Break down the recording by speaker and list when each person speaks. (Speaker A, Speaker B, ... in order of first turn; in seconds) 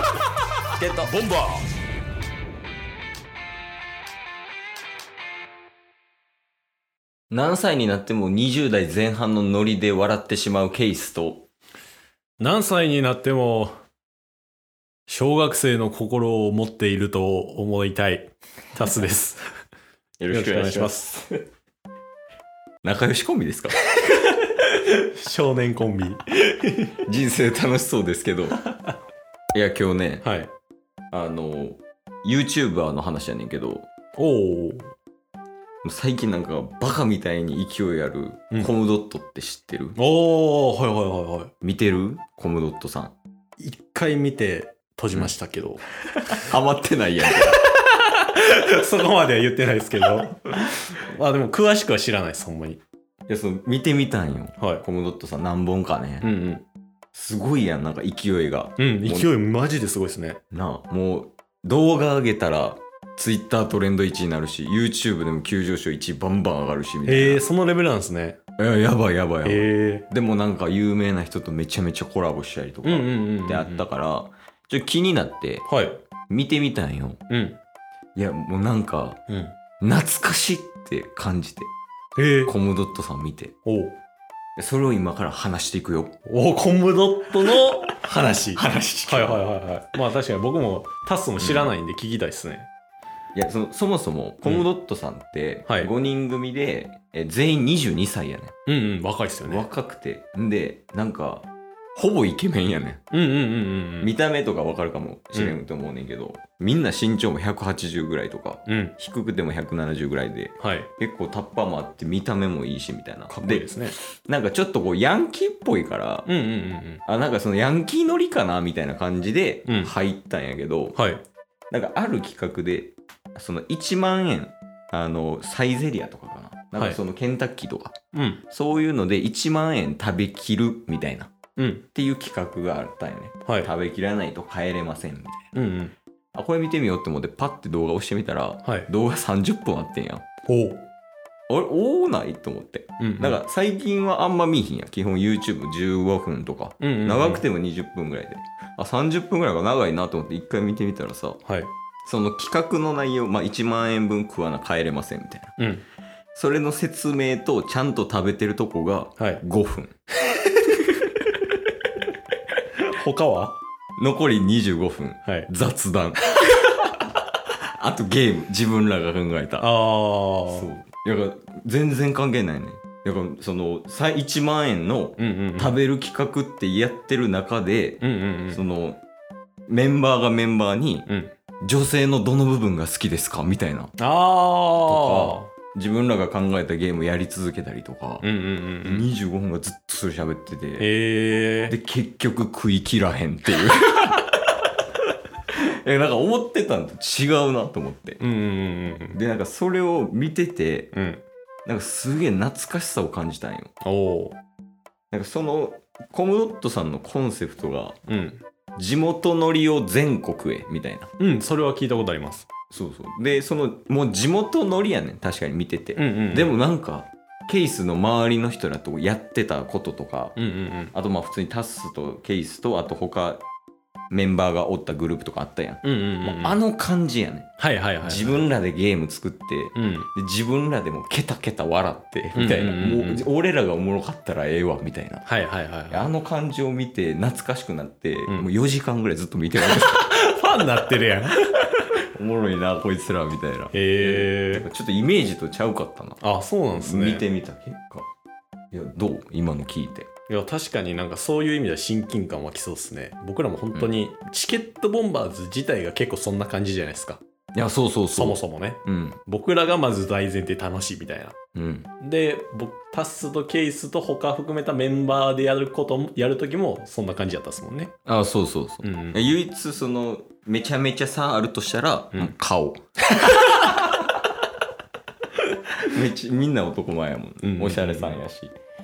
Speaker A: 0.8-1.1, 7.3-11.5, 20.2-21.3, 22.8-23.8, 27.0-28.6, 29.5-30.2, 31.1-33.9, 35.8-40.0, 41.6-43.1, 46.3-47.7, 53.3-56.3, 57.1-59.3, 60.5-67.4, 68.6-75.7, 76.3-77.2, 78.1-79.2, 79.8-81.7, 82.5-83.5, 84.6-86.1, 87.4-89.5, 91.4-91.7, 93.3-98.5, 99.4-103.0, 104.0-116.3, 117.0-121.0, 121.7-127.9, 128.5-131.3, 131.9-135.5, 136.3-140.2, 141.5-151.4, 152.0-155.5, 156.3-159.9, 160.8-161.3, 164.0-167.2, 167.8-169.7, 170.5-179.0, 179.7-181.1, 181.6-183.9, 184.8-188.2, 188.8-190.9, 191.7-194.4, 195.5-198.2, 199.1-200.9, 201.7-203.7, 205.1-208.0, 208.8-211.1, 212.7-220.4, 220.9-223.4, 224.1-227.5, 228.0-235.3, 235.9-240.1, 242.1-246.2, 246.7-248.1, 248.7-250.1, 257.5-259.2, 261.5-261.9, 268.1-274.1, 275.8-278.5
Speaker B: 1.0-1.6, 12.4-13.7, 15.1-19.4, 20.3-21.1, 24.2-27.0, 30.2-30.5, 34.1-34.9, 39.9-41.5, 43.6-46.4, 47.3-52.8, 54.6-54.8, 56.2-56.6, 58.8-60.4, 67.0-68.4, 69.4-70.1, 72.8-73.8, 75.7-76.0, 77.3-77.6, 79.3-79.5, 82.2-82.5, 83.6-84.0, 86.2-92.7, 98.7-99.7, 103.1-104.1, 108.7-108.9, 110.6-110.9, 113.3-114.0, 116.2-117.0, 119.7-119.9, 121.0-121.2, 128.1-128.4, 131.6-131.8, 133.4-133.7, 135.5-135.9, 140.4-140.9, 143.0-143.4, 146.8-147.4, 151.4-151.7, 155.6-155.8, 159.2-159.4, 162.8-163.6, 169.6-170.7, 175.2-175.8, 178.0-178.6, 181.1-181.3, 184.0-185.5, 188.2-189.1, 190.8-191.7, 198.2-199.2, 200.9-201.2, 203.8-204.4, 208.1-208.4, 211.2-212.5, 216.0-216.5, 220.3-220.9, 225.8-226.6, 227.6-228.4, 229.7-230.1, 232.3-233.2, 235.2-236.1, 239.6-241.9, 243.7-244.7, 246.2-247.2, 250.3-257.2, 258.1-261.3, 262.0-267.9, 268.8-269.2, 277.4-278.2